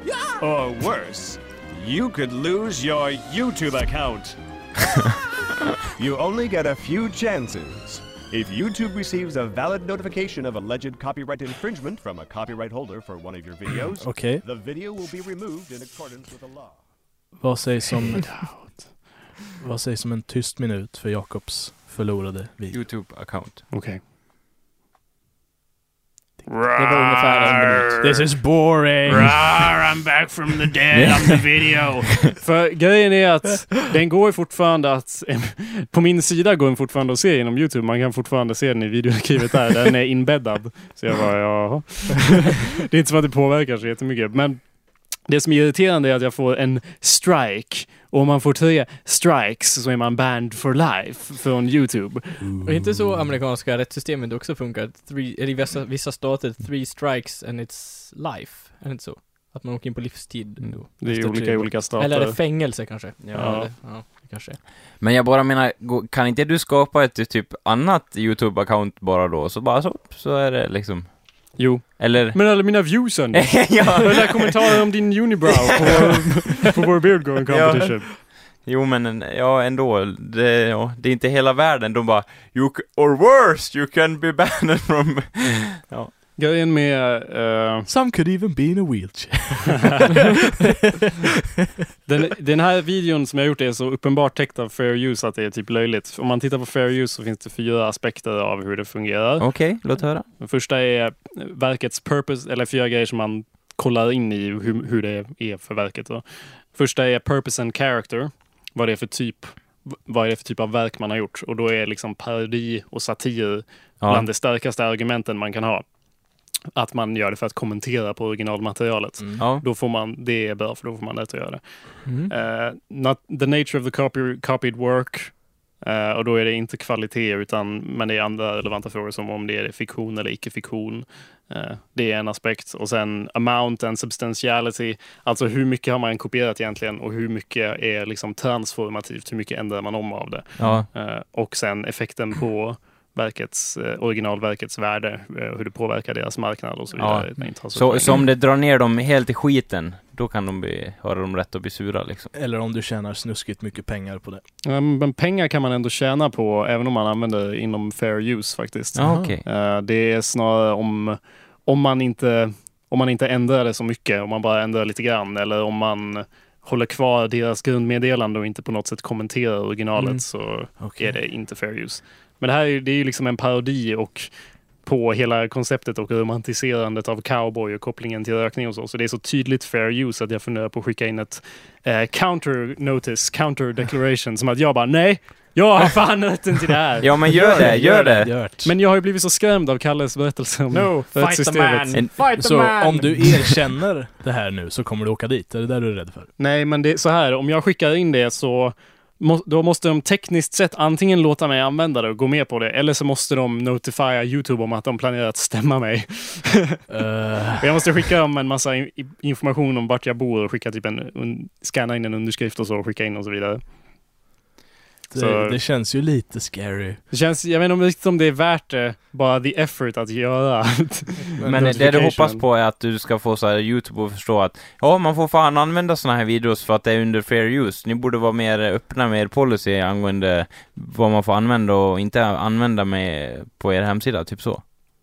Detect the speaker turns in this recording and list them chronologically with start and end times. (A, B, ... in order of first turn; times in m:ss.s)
0:00.4-0:04.4 A
0:06.0-0:16.8 A
0:14.0-0:14.4 B
0:17.4-0:18.5 B
0:18.1-0:18.8 C
0:19.6-0:22.8 B
0:22.7-0:23.6 D
0:23.7-0:24.0 C
0:26.5-0:28.3 C
0:26.7-0:28.0 E
0:28.0-0:29.5 B
0:29.2-0:31.8 C
0:30.9-0:31.3 D
0:32.4-0:44.6 C
0:45.2-0:52.4 C
0:52.4-0:53.3 B
0:52.6-1:04.6 E
1:01.0-1:02.4 C
1:03.2-1:03.6 D
1:03.3-1:03.7 C
1:05.0-1:14.6 D
1:11.6-1:18.1 C
1:15.7-1:16.7 D
1:17.5-1:26.1 D
1:26.4-1:27.9 C
1:27.8-1:30.7 B
1:32.0-1:39.5 C
1:39.4-1:40.2 D
1:40.4-1:55.8 C
1:54.0-1:54.2 D
1:56.7-2:28.2 C
1:59.4-1:59.6 D
2:02.0-2:02.3 E
2:20.6-2:20.9 D
2:27.0-2:32.3 D
2:32.3-2:34.4 B
2:34.6-2:54.3 C
2:38.9-2:39.4 D
2:39.0-2:39.4 B
2:50.8-2:51.2 B
2:54.8-3:12.0 C
3:07.0-3:08.3 D
3:07.3-3:08.7 B
3:10.7-3:13.2 E
3:12.3-3:16.3 B
3:16.4-3:26.8 C
3:26.9-3:27.8 B
3:27.5-3:33.6 C
3:35.1-3:37.0 B
3:35.1-3:35.6 C
3:37.1-3:42.4 C
3:41.4-3:41.8 B
3:41.4-3:54.6 D